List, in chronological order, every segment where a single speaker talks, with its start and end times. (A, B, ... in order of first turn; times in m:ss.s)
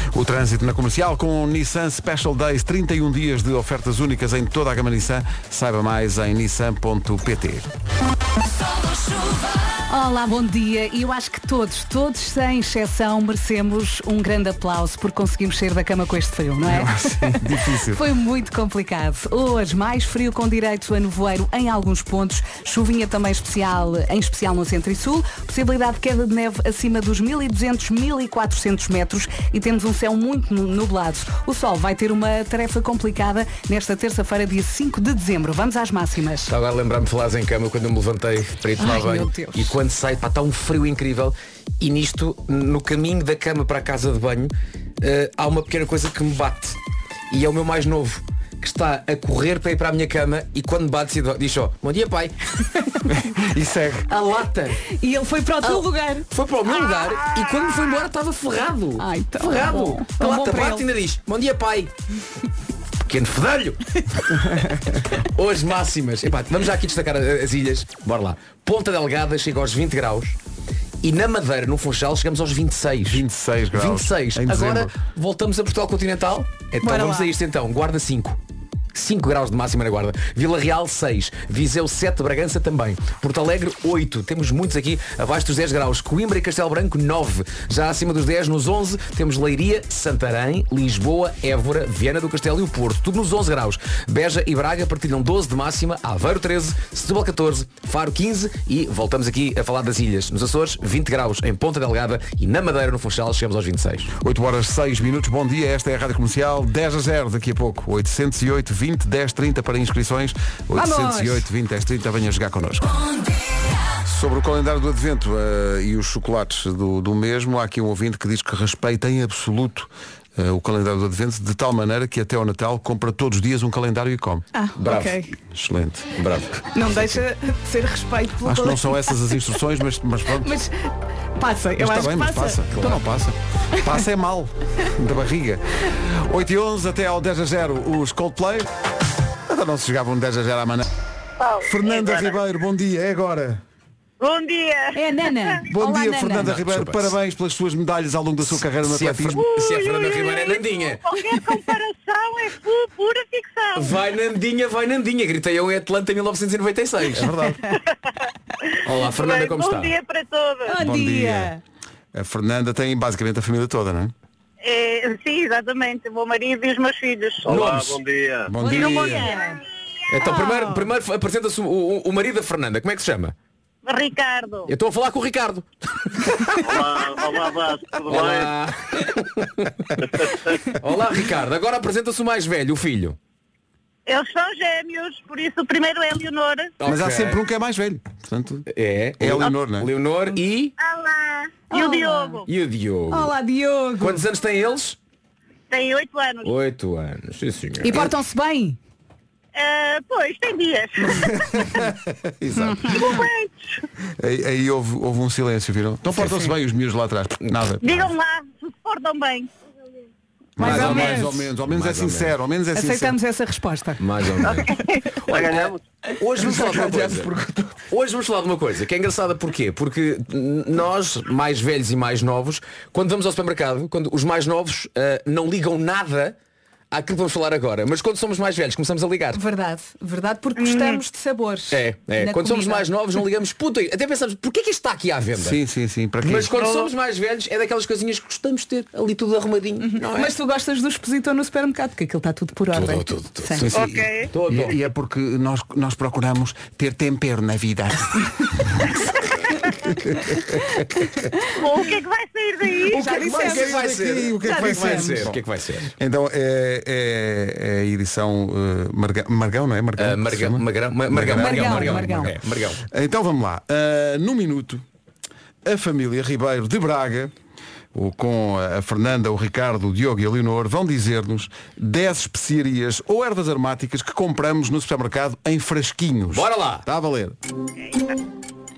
0:00.1-0:07.7 A
0:09.9-0:36.5 B
0:16.6-0:18.0 A
0:36.5-0:46.8 C
0:38.8-0:39.7 B
0:47.3-0:52.7 C
0:53.1-0:54.1 A
0:54.1-0:54.8 C
0:55.0-0:56.2 B
0:56.3-1:01.9 C
0:59.0-1:00.8 B
1:03.0-1:04.0 C
1:05.2-1:10.4 C
1:11.0-1:18.4 C
1:13.0-1:14.9 A
1:16.8-1:17.3 B
1:18.9-1:44.1 C
1:44.2-1:52.9 A
1:50.7-1:51.4 B
1:54.0-2:04.4 A
2:04.5-2:05.3 B
2:04.8-2:05.2 C
2:05.5-2:06.2 A
2:06.2-2:06.6 C
2:06.7-2:09.1 B
2:08.4-2:10.6 A
2:10.4-2:13.0 B
2:11.8-2:18.7 A
2:13.7-2:14.0 B
2:19.5-2:20.9 A
2:21.4-2:22.4 D
2:21.6-2:23.6 A
2:24.2-2:25.6 D
2:24.9-2:26.5 B
2:25.7-2:29.4 A
2:26.4-2:27.1 C
2:28.5-2:31.2 C
2:29.3-2:34.0 D
2:33.7-2:37.3 C
2:37.1-2:37.6 A
2:38.7-2:40.8 D
2:38.8-2:39.9 C
2:40.6-2:41.6 B
2:40.8-2:41.5 A
2:42.1-2:44.1 A
2:44.6-2:47.5 D
2:47.4-2:48.5 E
2:47.5-2:48.0 C
2:48.5-2:49.3 A
2:48.6-2:49.6 B
2:48.6-2:49.6 D
2:50.1-2:53.3 C
2:50.2-2:50.8 B
2:53.8-2:54.7 D
2:54.7-2:56.4 C
2:56.6-2:58.6 E
2:58.0-3:03.2 C
3:04.0-3:06.7 D
3:06.8-3:07.4 C
3:06.8-3:08.7 A
3:08.7-3:10.7 C
3:09.2-3:09.9 A
3:10.8-3:12.5 D
3:11.7-3:12.4 B
3:12.5-3:13.3 C
3:13.1-3:14.2 B
3:14.0-3:15.0 C
3:15.7-3:16.5 D
3:16.4-3:18.1 C
3:17.8-3:18.8 B
3:19.5-3:21.7 D
3:21.2-3:23.1 A
3:22.8-3:23.7 D
3:24.2-3:28.1 A
3:26.1-3:26.5 B
3:27.8-3:29.5 D
3:30.6-3:33.2 A
3:30.6-3:31.4 B
3:30.6-3:32.3 C
3:32.7-3:34.0 B
3:34.0-3:34.7 C
3:34.5-3:35.0 D
3:35.2-3:37.3 C
3:35.3-3:35.8 E
3:36.4-3:37.8 A
3:37.9-3:46.4 C
3:46.9-3:49.4 C
3:49.3-3:52.9 B
3:50.6-3:51.0 D
3:51.7-3:55.6 C
3:55.4-3:56.6 A
3:56.2-4:00.3 C
3:56.6-3:56.9 D
3:59.8-4:03.7 B
4:02.7-4:03.7 C
4:03.6-4:08.9 A
4:03.7-4:04.3 D
4:04.3-4:04.8 C
4:10.0-4:11.0 A
4:11.5-4:13.0 D
4:12.9-4:13.8 B
4:12.9-4:24.8 A
4:13.0-4:15.9 C
4:14.4-4:15.3 B
4:20.0-4:22.8 C
4:21.3-4:22.3 B
4:25.6-4:27.3 A
4:27.9-4:37.4 A
4:36.3-4:36.8 C
4:37.8-4:38.2 D